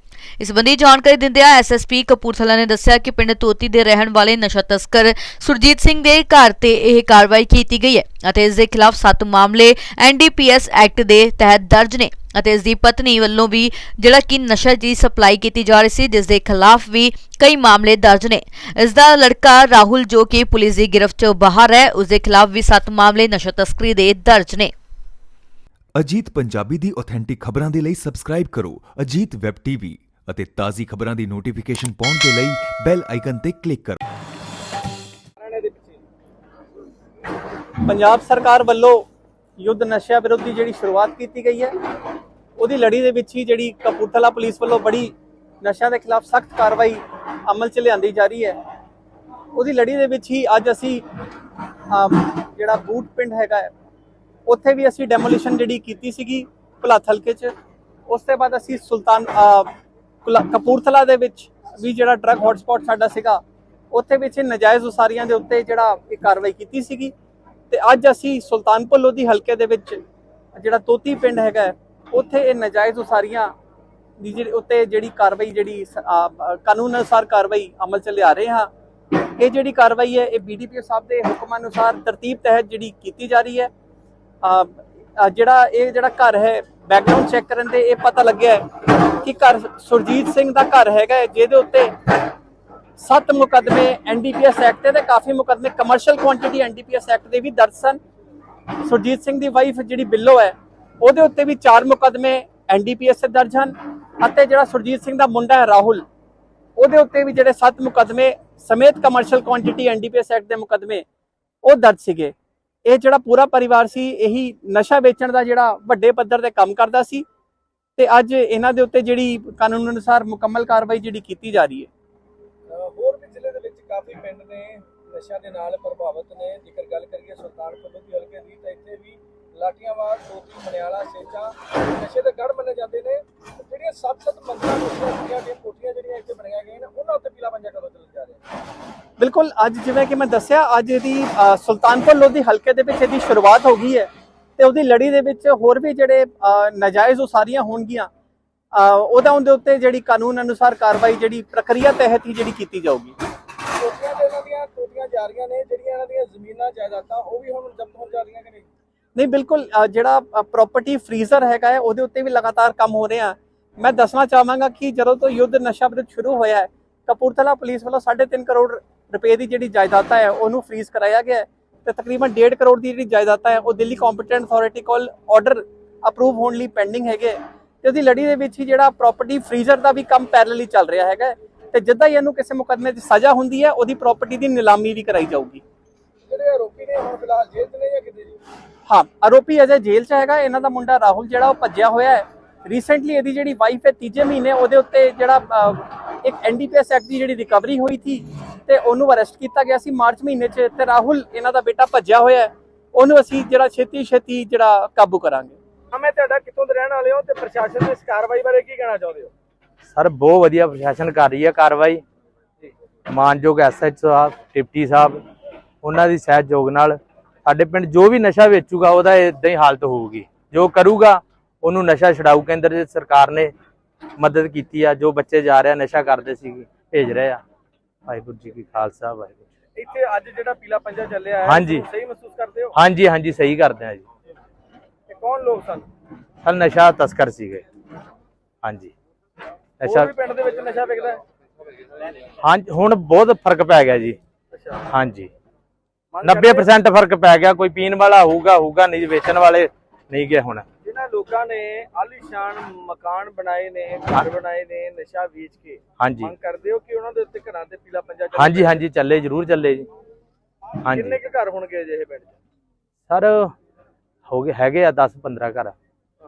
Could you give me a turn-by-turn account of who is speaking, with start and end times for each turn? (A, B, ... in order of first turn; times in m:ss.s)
0:00.4-0:24.7 A
0:25.9-0:34.0 B
0:35.4-0:36.0 C
0:37.8-0:39.0 D
0:39.6-0:41.7 D
0:42.6-0:48.6 D
0:49.5-0:51.0 D
0:51.9-0:53.7 D
0:54.5-0:57.5 D
0:58.1-0:59.7 D
1:00.2-1:03.4 D
1:03.9-1:07.1 D
1:07.7-1:10.0 D
1:10.6-1:13.5 D
1:14.2-1:18.7 D
1:19.4-1:23.7 D
1:24.4-1:31.9 D
1:33.0-1:38.0 D
1:38.8-1:46.0 D
1:46.8-1:51.0 D
1:51.6-1:52.3 D
1:52.8-1:57.2 D
1:58.0-2:01.9 D
2:02.7-2:18.4 C
2:19.2-2:28.1 D
2:28.7-2:33.1 D
2:33.8-2:38.6 C
2:39.2-3:05.6 D
3:06.3-3:08.4 C
3:08.9-3:25.6 D
3:25.9-3:29.3 C
3:29.9-3:32.0 E
3:33.1-3:35.2 E
3:35.8-3:43.5 E
3:44.2-3:47.4 E
3:48.1-3:49.5 E
3:49.8-3:52.7 C
3:51.5-3:51.8 E
3:52.8-3:54.0 E
3:55.1-3:55.9 C
3:56.4-3:57.6 E
3:58.6-3:58.9 E
3:59.8-4:00.1 E
3:59.8-4:01.2 C
4:02.4-4:04.2 E
4:04.5-4:04.8 C
4:04.9-4:05.3 E
4:06.1-4:06.7 C
4:06.2-4:10.6 E
4:10.8-4:18.8 C
4:16.0-4:16.3 E
4:18.4-4:19.9 E
4:20.8-4:21.2 E
4:20.8-4:22.3 C
4:23.1-4:23.5 E
4:24.3-4:25.7 E